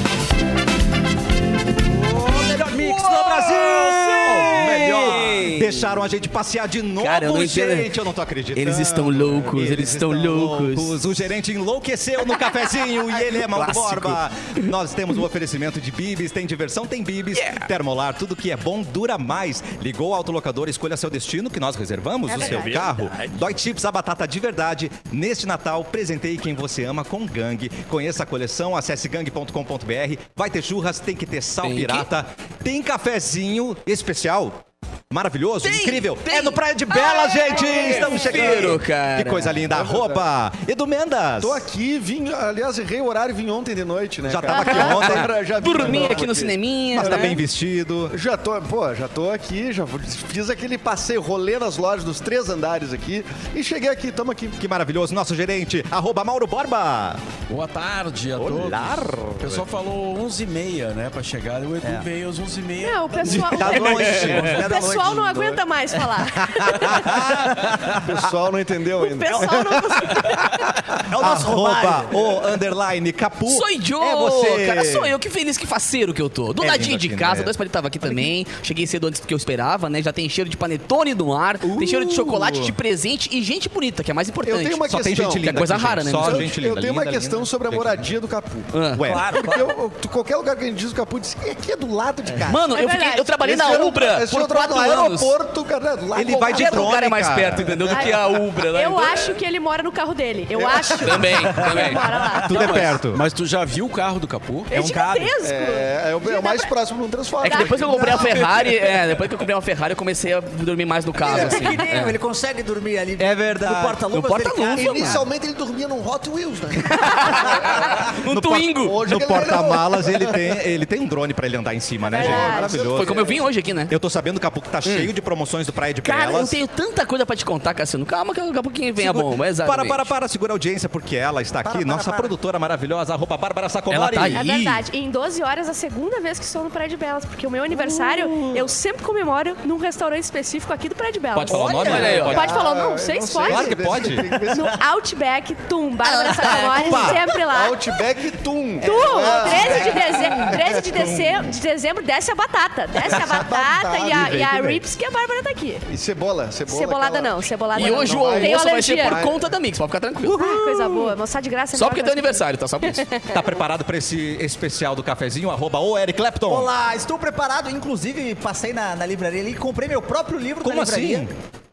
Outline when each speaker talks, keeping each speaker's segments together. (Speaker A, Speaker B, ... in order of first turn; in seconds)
Speaker A: 2.2-5.5, 22.3-23.3, 64.3-65.3, 67.1-67.4, 71.1-72.4, 89.0-89.7, 111.2-115.2, 131.6-132.3, 141.5-142.3, 166.4-171.3
Speaker B: 2.5-41.6, 44.2-46.1, 46.9-48.1, 54.6-57.2, 58.4-59.6, 63.2-65.5, 66.2-67.8, 71.2-75.1, 76.6-77.5, 81.6-82.8, 84.9-88.1, 88.9-89.4, 96.1-97.8, 102.3-103.2, 104.7-105.3, 113.2-114.0, 118.3-123.3, 123.9-126.6, 129.0-134.8, 141.3-142.6, 143.4-144.4, 146.2-147.4, 149.4-151.5, 153.0-153.4, 154.1-154.8, 163.3-166.7, 170.6-171.3
Speaker C: 2.8-6.0, 7.0-7.9, 8.5-11.0, 13.5-14.2, 17.3-17.7, 31.6-32.1, 35.6-39.6, 44.6-47.4, 73.5-86.5, 88.7-89.0, 92.5-95.3, 96.3-99.4, 101.0-102.0, 107.4-112.2, 114.1-115.2, 116.9-119.0, 122.8-123.9, 126.0-130.1, 133.9-134.6, 141.8-142.3, 146.1-147.0, 157.7-160.9, 161.7-163.1
Speaker D: 22.4-22.7, 36.9-38.4, 44.6-44.9, 62.8-67.2, 69.0-70.7, 92.7-93.3, 97.9-102.9, 104.7-106.7, 107.4-108.5, 122.1-122.9, 134.3-143.8, 144.5-148.0, 148.8-155.8, 156.7-159.2, 160.2-162.4, 163.0-163.5
Speaker E: 39.7-40.2, 41.4-47.5, 48.1-54.6, 67.6-70.0, 84.5-85.5, 86.2-88.7, 89.3-92.7, 93.4-96.9, 100.5-102.0, 105.4-108.8, 111.3-111.7, 114.7-118.1, 118.8-120.5, 122.1-123.4, 142.1-144.8, 147.4-150.6, 153.0-154.3, 155.9-159.4
Speaker F: 57.5-64.6, 102.4-104.7